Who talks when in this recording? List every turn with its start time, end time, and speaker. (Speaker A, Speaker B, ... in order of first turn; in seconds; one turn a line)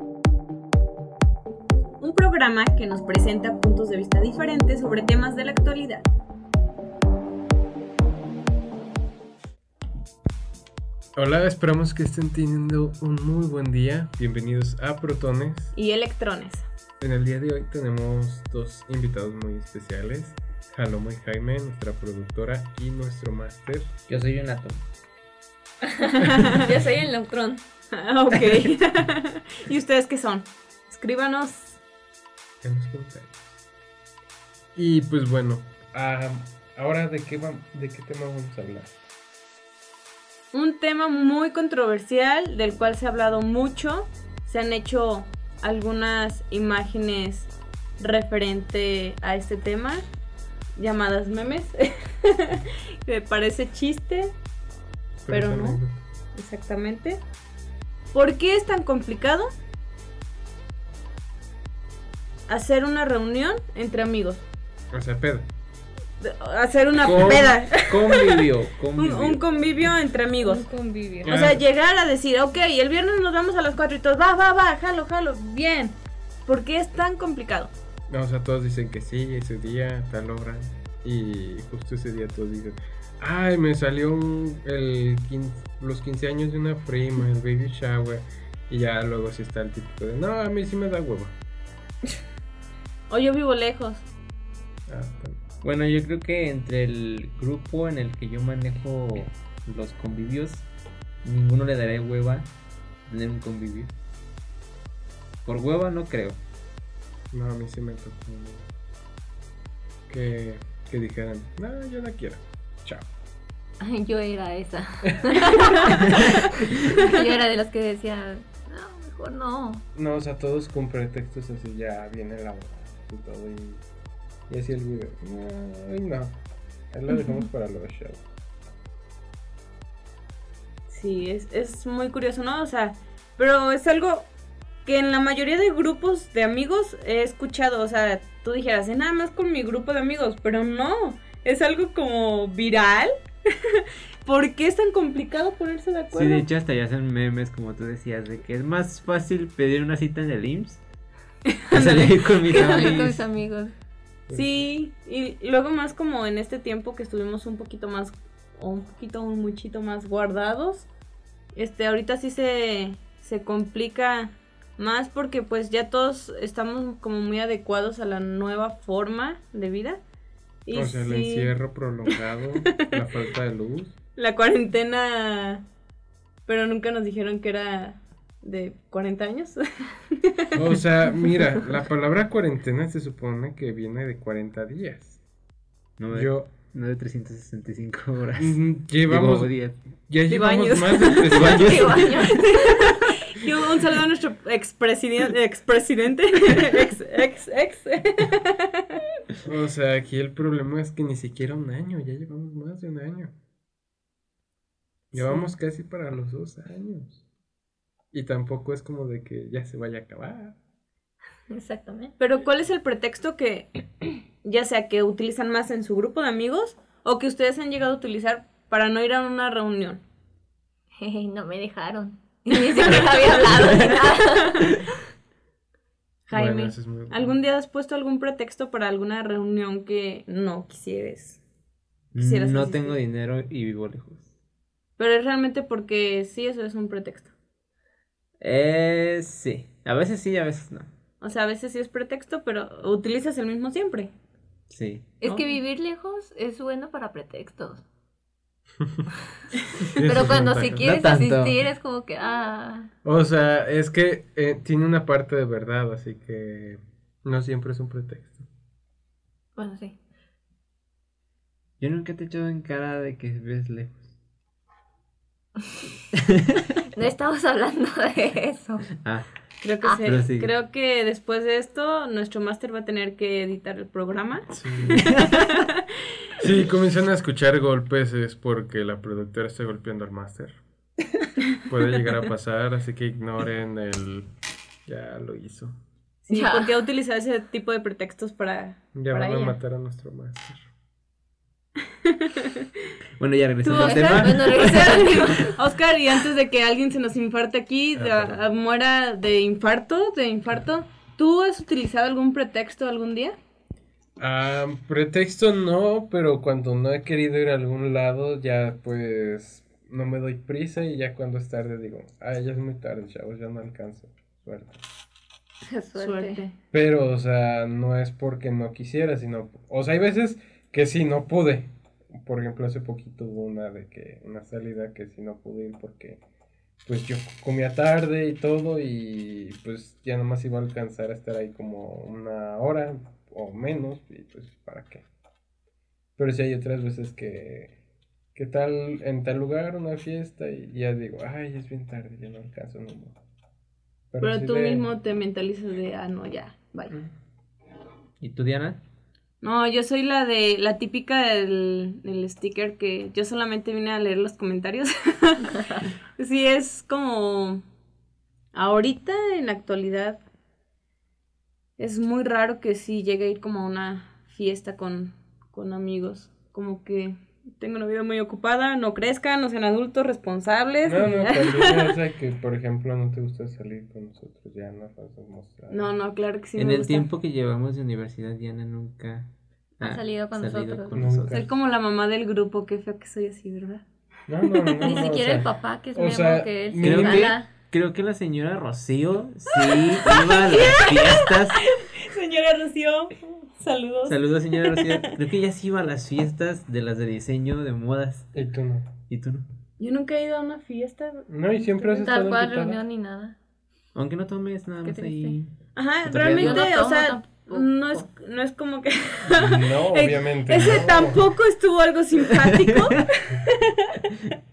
Speaker A: 2.0-6.1
Speaker B: 11.1-15.7
Speaker A: 15.7-16.7
Speaker B: 17.0-23.9
Speaker C: 24.1-24.8
Speaker D: 25.9-27.6
Speaker A: 26.1-26.7
Speaker A: 27.9-31.8
Speaker B: 32.6-33.5
Speaker B: 34.7-39.0
Speaker A: 40.5-50.0
Speaker A: 50.8-54.3
Speaker B: 55.2-56.0
Speaker A: 55.3-55.8
Speaker A: 56.3-57.2
Speaker A: 58.1-59.5
Speaker A: 62.5-64.4
Speaker B: 64.9-65.5
Speaker A: 66.2-68.4
Speaker C: 67.0-69.4
Speaker A: 69.0-70.7
Speaker D: 70.4-71.3
Speaker B: 71.2-71.6
Speaker A: 71.2-77.7
Speaker B: 78.1-91.3
Speaker A: 93.1-94.0
Speaker B: 94.9-95.4
Speaker C: 95.6-100.6
Speaker C: 101.2-102.5
Speaker C: 103.1-103.9
Speaker C: 105.4-106.4
Speaker B: 107.3-108.7
Speaker B: 110.1-113.1
Speaker D: 113.8-119.8
Speaker A: 115.6-116.1
Speaker A: 116.9-117.2
Speaker B: 119.9-123.8
Speaker B: 124.5-126.3
Speaker B: 126.9-128.2
Speaker A: 130.9-134.3
Speaker A: 134.8-146.4
Speaker C: 146.1-150.8
Speaker A: 151.5-153.0
Speaker C: 151.7-153.2
Speaker D: 152.5-153.7
Speaker B: 154.3-154.7
Speaker A: 154.3-160.9
Speaker A: 161.5-170.0
Speaker A: 170.7-171.5
Speaker B: 170.7-173.9
Speaker A: 174.2-175.6
Speaker A: 176.4-180.6
Speaker B: 180.5-185.2
Speaker C: 186.0-189.8
Speaker B: 186.1-186.5
Speaker B: 188.4-189.5
Speaker B: 190.1-192.2
Speaker A: 190.3-199.0
Speaker C: 191.3-192.2
Speaker D: 191.4-193.1
Speaker B: 199.4-203.3
Speaker B: 205.1-207.2
Speaker A: 205.1-205.4
Speaker B: 208.1-210.6
Speaker D: 211.5-212.1
Speaker A: 212.2-213.7
Speaker A: 214.4-220.0
Speaker D: 221.0-224.8
Speaker A: 222.7-224.7
Speaker C: 223.3-224.8
Speaker A: 226.3-231.4
Speaker B: 226.3-227.3
Speaker C: 232.1-234.3
Speaker A: 232.2-233.0
Speaker A: 235.0-237.3
Speaker C: 238.4-240.9
Speaker A: 241.2-244.1
Speaker C: 244.7-245.1
Speaker D: 245.2-247.8
Speaker A: 245.2-245.5
Speaker B: 249.8-250.9
Speaker D: 249.9-252.9
Speaker C: 250.7-251.7
Speaker B: 253.0-258.5
Speaker D: 259.6-260.0
Speaker C: 261.8-264.1
Speaker C: 266.1-266.6
Speaker D: 266.9-268.9
Speaker C: 269.0-269.3
Speaker A: 269.6-275.8
Speaker C: 270.0-270.5
Speaker B: 274.5-275.2
Speaker C: 275.1-275.3
Speaker B: 276.4-280.6
Speaker B: 281.6-284.3
Speaker B: 284.9-285.8
Speaker A: 286.2-289.6
Speaker D: 286.3-286.7
Speaker B: 288.9-290.6
Speaker A: 292.0-292.7
Speaker C: 293.2-295.0
Speaker A: 293.6-303.4
Speaker D: 293.7-295.5
Speaker B: 297.9-298.4
Speaker B: 304.2-314.8
Speaker D: 315.7-316.4
Speaker A: 315.9-316.5
Speaker B: 316.7-326.2
Speaker B: 326.8-335.1
Speaker B: 336.2-337.7
Speaker B: 338.3-343.2
Speaker B: 344.1-344.9
Speaker A: 344.2-346.9
Speaker C: 348.2-348.8
Speaker A: 349.4-357.6
Speaker A: 358.5-360.2
Speaker A: 361.8-371.9
Speaker B: 370.8-375.9
Speaker A: 375.7-377.1
Speaker C: 376.6-381.4
Speaker D: 379.8-380.9
Speaker B: 380.9-381.5
Speaker A: 381.3-383.8
Speaker B: 384.3-387.3
Speaker A: 384.5-384.9
Speaker D: 384.8-387.5
Speaker C: 386.8-391.6
Speaker A: 389.6-395.1
Speaker C: 394.1-398.3
Speaker B: 398.3-398.9
Speaker C: 399.1-399.4
Speaker A: 399.8-401.3
Speaker B: 401.3-402.8
Speaker D: 401.8-403.4
Speaker C: 403.9-405.5
Speaker D: 404.8-405.4
Speaker A: 405.7-414.1
Speaker C: 406.0-406.7
Speaker D: 406.3-408.1
Speaker B: 409.3-411.2